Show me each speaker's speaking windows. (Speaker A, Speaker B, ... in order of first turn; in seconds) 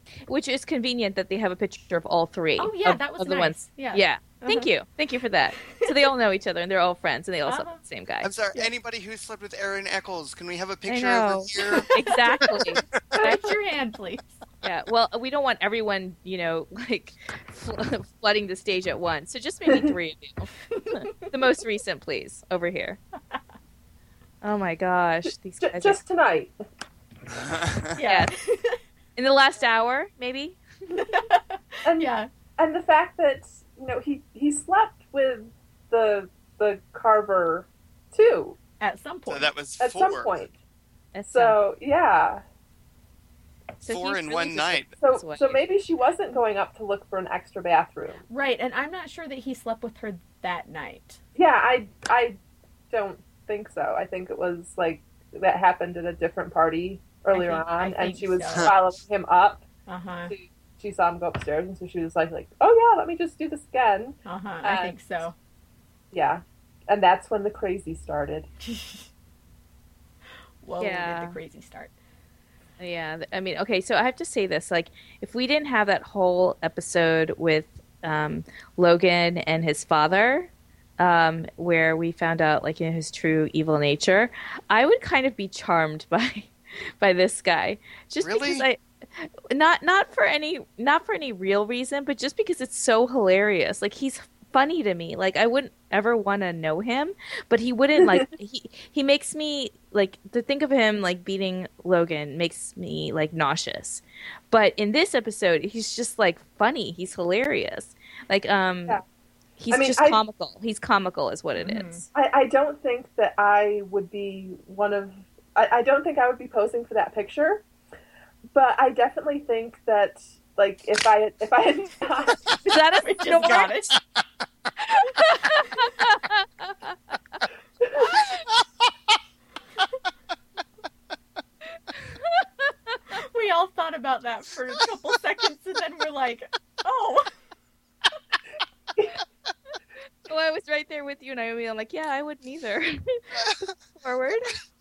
Speaker A: 0.3-8.3, 10.9-13.3, 14.6-23.0, 24.4-26.0, 28.0-28.3, 29.2-31.0, 41.1-41.6, 43.8-45.7, 70.8-71.4, 72.8-109.0, 109.6-112.0, 122.7-123.8, 125.2-127.2, 132.1-132.5, 140.3-143.3, 143.9-144.6
Speaker B: 2.6-4.7, 7.5-7.8, 13.2-14.4, 27.9-28.8, 30.9-32.3, 38.8-39.5, 48.3-51.2, 57.3-58.7, 59.9-60.3, 64.2-65.3, 68.6-69.1, 70.6-71.9, 111.6-112.1, 123.0-124.0, 133.1-137.3
Speaker C: 8.2-11.9, 27.4-27.8, 39.3-40.4, 43.9-44.9, 88.2-88.7, 143.3-143.8
Speaker D: 13.1-13.5, 25.6-26.5, 31.9-38.6, 39.8-40.5, 41.3-42.4, 45.0-48.2, 51.4-52.4, 52.9-59.7, 60.3-65.2, 66.1-68.5, 98.0-98.3, 109.7-110.2, 112.1-117.7, 118.5-123.6, 127.8-128.2